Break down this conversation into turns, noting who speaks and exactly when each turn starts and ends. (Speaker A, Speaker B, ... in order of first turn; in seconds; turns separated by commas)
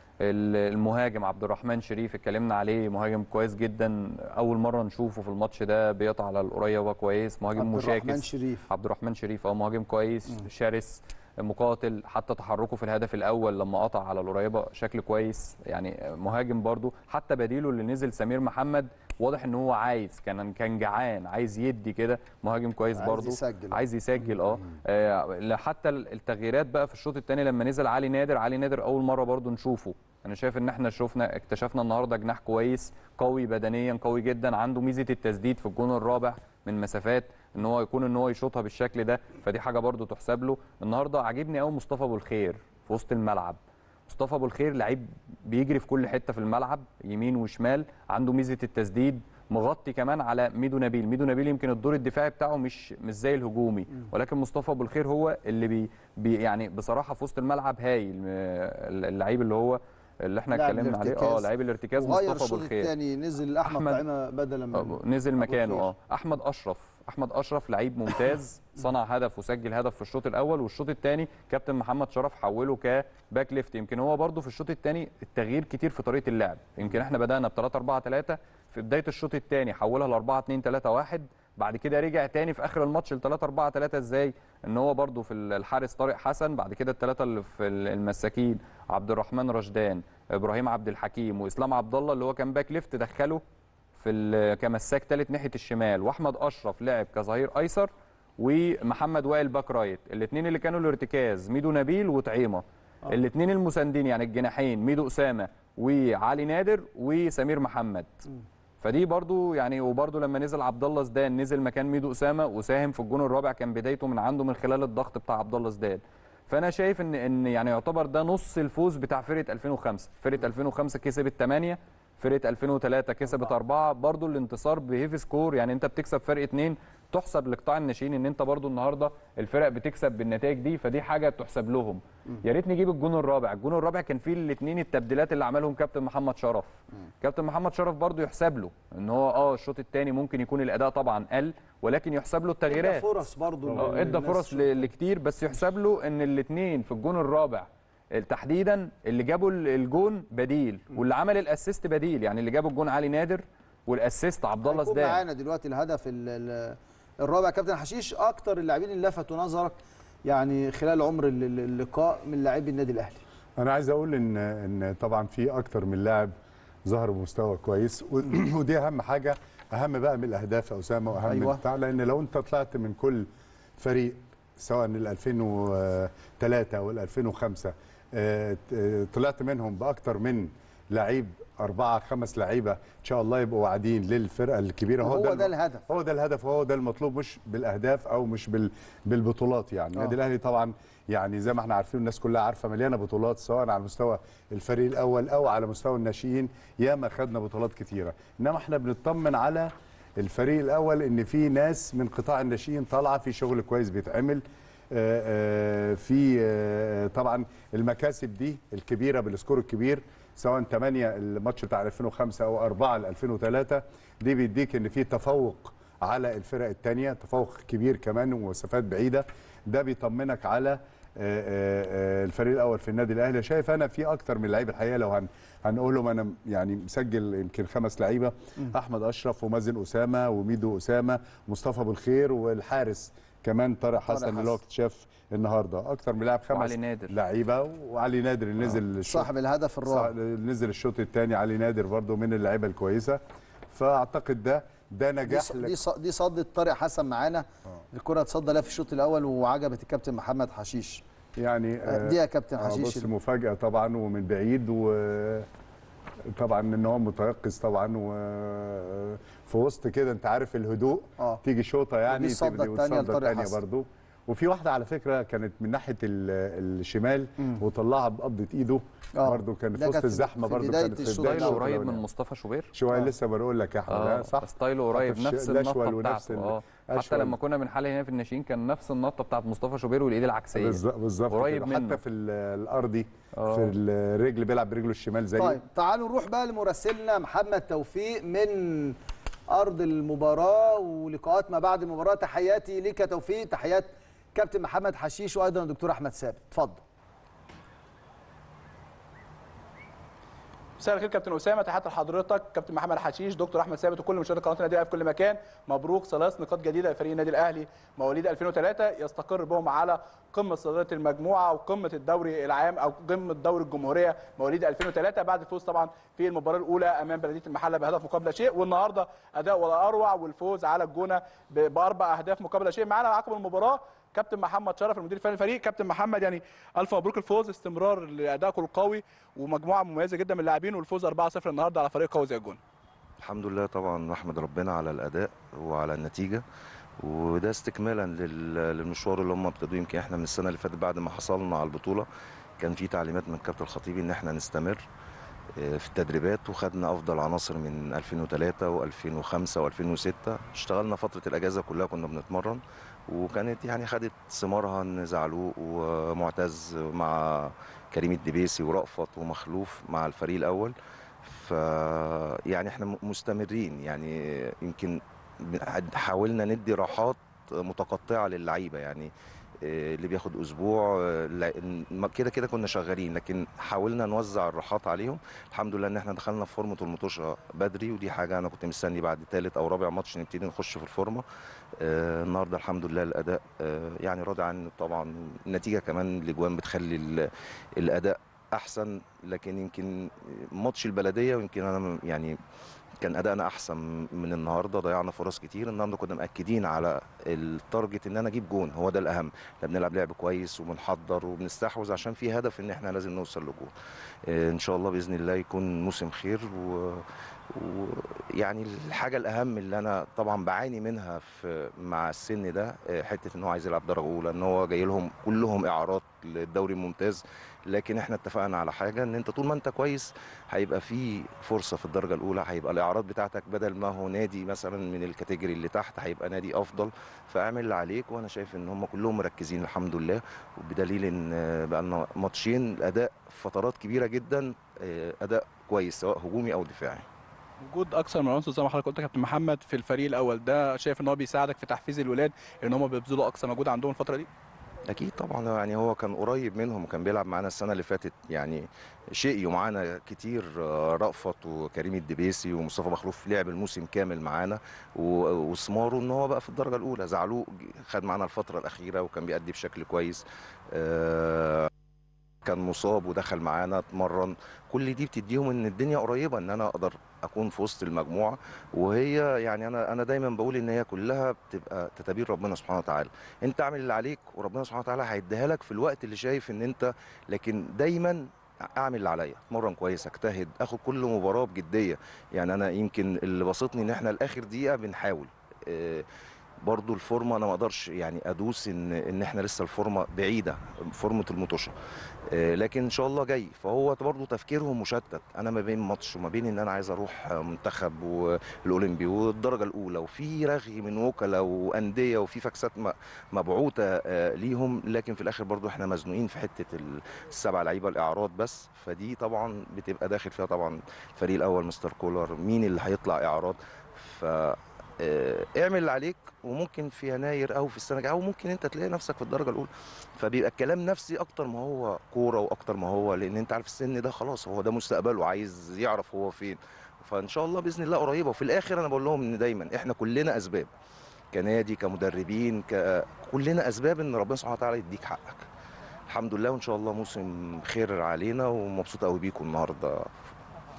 Speaker A: 0.2-62.9, Speaker B: 7.6-8.7, Speaker B: 23.0-23.8, Speaker B: 60.5-65.9, Speaker A: 63.6-64.0, Speaker A: 64.8-93.4, Speaker A: 94.0-108.1, Speaker A: 108.8-143.1, Speaker B: 142.7-144.9, Speaker A: 143.7-155.2, Speaker B: 154.7-163.2, Speaker C: 163.6-166.3, Speaker C: 166.9-173.3, Speaker B: 171.3-171.6, Speaker C: 173.8-239.3, Speaker B: 185.0-185.8, Speaker B: 234.1-234.6, Speaker A: 236.5-237.2, Speaker B: 239.1-240.1, Speaker C: 239.8-245.8, Speaker B: 245.3-251.0, Speaker C: 251.4-255.5, Speaker B: 251.9-253.1, Speaker C: 256.3-272.0, Speaker B: 262.1-263.6, Speaker B: 269.2-271.6, Speaker A: 271.2-272.7, Speaker C: 272.7-277.4, Speaker A: 273.9-282.0, Speaker C: 280.5-285.6, Speaker A: 283.4-283.7, Speaker B: 285.4-289.0, Speaker B: 289.5-296.8, Speaker D: 300.8-332.6, Speaker E: 333.2-336.4, Speaker E: 337.0-342.1, Speaker E: 342.6-344.8, Speaker E: 345.6-369.1, Speaker E: 369.6-381.2, Speaker E: 381.8-392.4, Speaker E: 393.0-403.7, Speaker E: 404.3-437.1, Speaker D: 437.6-444.3, Speaker E: 444.9-461.7, Speaker E: 462.4-486.1, Speaker E: 486.6-491.7, Speaker E: 492.3-530.7, Speaker E: 531.3-535.5, Speaker E: 536.1-540.1